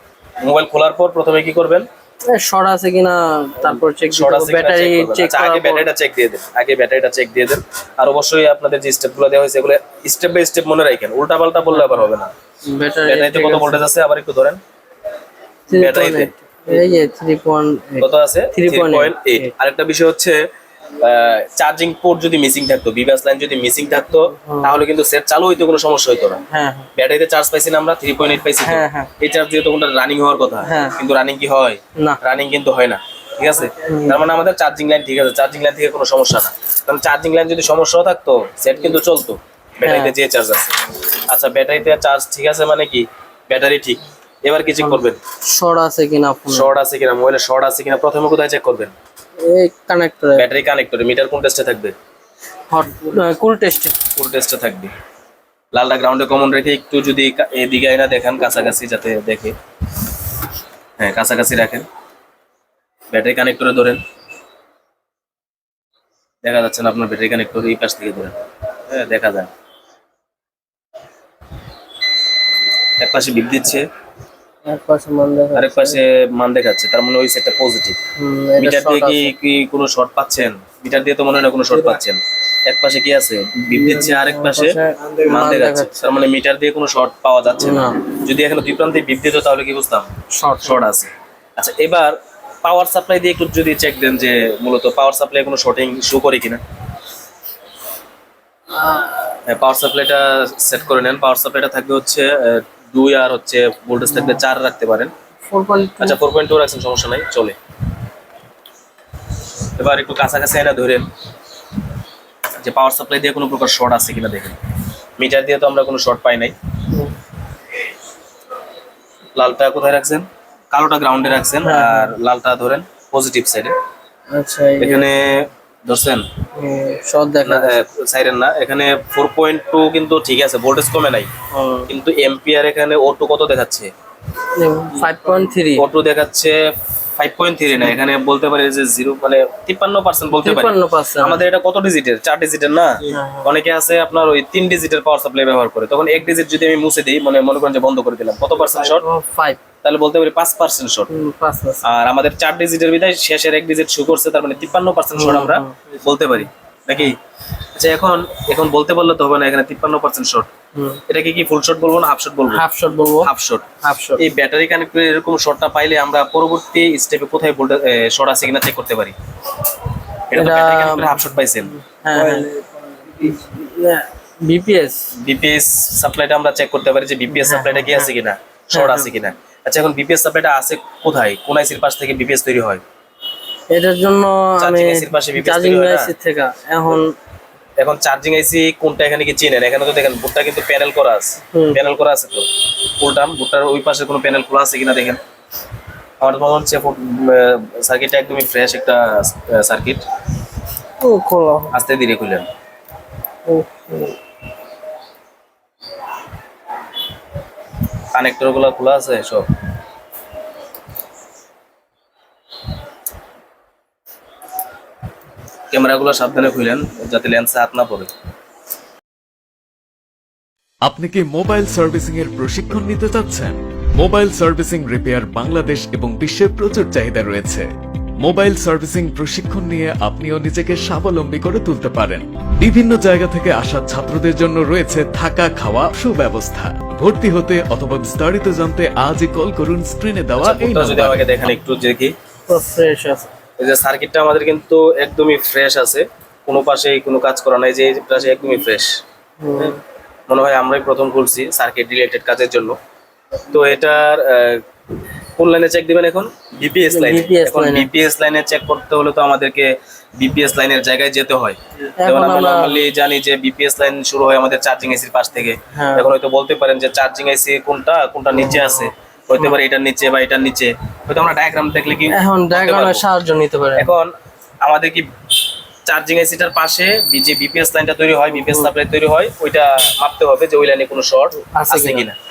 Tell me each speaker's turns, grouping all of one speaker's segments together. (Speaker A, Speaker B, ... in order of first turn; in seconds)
Speaker A: 0.4-1.9, 3.6-12.3, 13.1-14.6, 15.7-16.3, 18.0-20.4, 21.0-26.4, 26.9-45.2, 46.5-48.9, 50.4-51.9, 54.1-54.9, 55.7-59.5, 61.0-61.9, 63.1-64.0, 66.4-69.5, 73.0-73.9, 75.5-78.0, 78.6-90.1, 90.6-96.6, 99.5-105.1, 106.0-107.6, 109.8-111.1, 112.6-114.6, 115.2-116.5, 119.3-123.7, 124.8-126.2, 127.4-131.3, 131.9-133.9, 135.7-136.6, 137.2-149.1, 149.8-151.1, 151.8-157.2, 157.7-160.5, 161.1-169.2, 170.3-171.7, 175.1-182.8, 184.6-186.1, 187.8-192.5, 193.0-195.2, 196.2-200.0, 201.7-202.5, 208.1-209.5, 215.7-218.1, 240.4-242.1, 243.6-248.9, 250.3-252.8, 253.5-254.6, 255.3-273.0, 273.8-275.1, 275.9-282.1
Speaker B: 2.2-5.8, 11.7-12.0, 12.6-13.8, 15.7-19.5, 24.3-24.8, 26.5-26.9, 28.6-29.1, 30.6-31.0, 33.9-34.2, 39.8-40.1, 44.8-46.7, 49.4-50.4, 52.7-53.9, 74.6-76.0, 78.2-79.3, 83.7-86.2, 87.6-88.1, 90.3-90.8, 104.1-104.4, 105.5-106.2, 116.9-117.1, 121.6-122.1, 124.3-125.1, 126.5-127.8, 131.5-131.9, 134.6-135.8, 140.3-141.4, 143.1-143.5, 148.7-149.6, 151.1-151.8, 155.2-156.0, 160.7-161.0, 162.5-163.3, 163.8-164.2, 170.3-172.5, 173.1-175.0, 177.3-178.1, 178.7-179.1, 183.7-187.1, 191.5-191.8, 201.0-201.7, 203.4-204.2, 242.5-243.3, 249.4-249.8, 256.9-257.9, 262.0-262.8, 265.7-266.1, 268.5-268.7, 272.1-273.9, 278.3-278.7, 281.3-282.1
Speaker C: 220.8-241.5